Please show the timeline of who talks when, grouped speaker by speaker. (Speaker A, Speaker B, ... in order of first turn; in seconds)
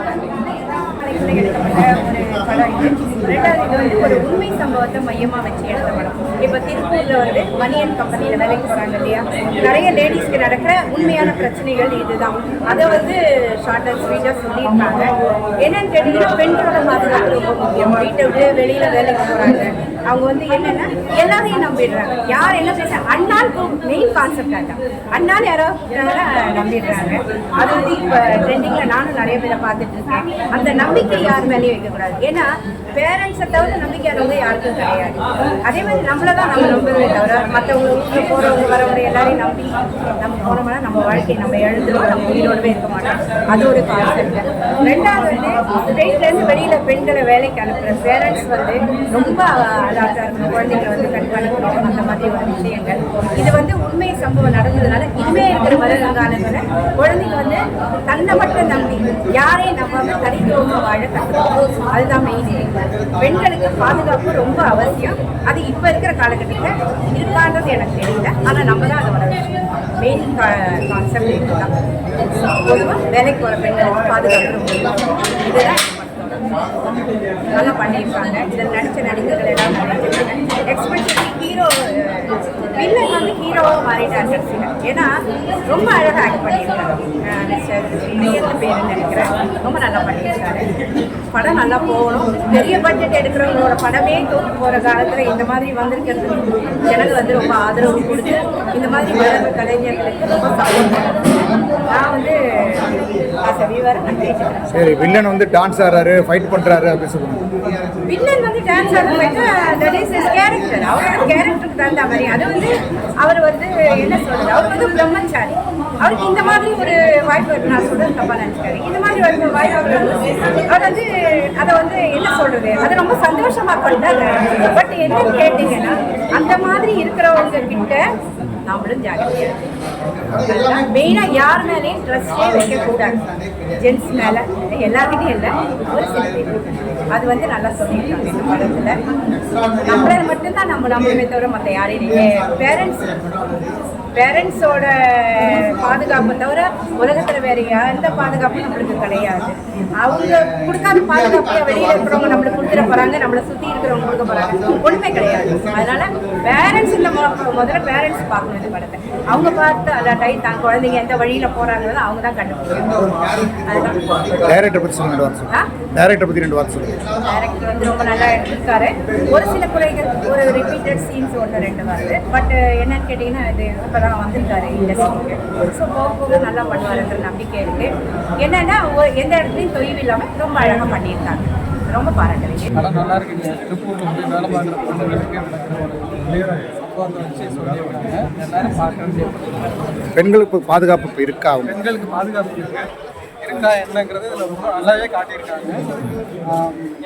Speaker A: 0.9-76.5, 77.5-85.1, 85.7-90.7, 91.3-104.6, 108.0-128.0, 128.7-129.6, 130.4-138.9, 139.8-143.4, 144.1-164.4, 167.2-182.7
Speaker B: 104.7-107.4, 164.4-166.9, 190.1-191.7
Speaker C: 182.8-189.8, 191.7-192.9, 193.4-195.8, 196.5-196.8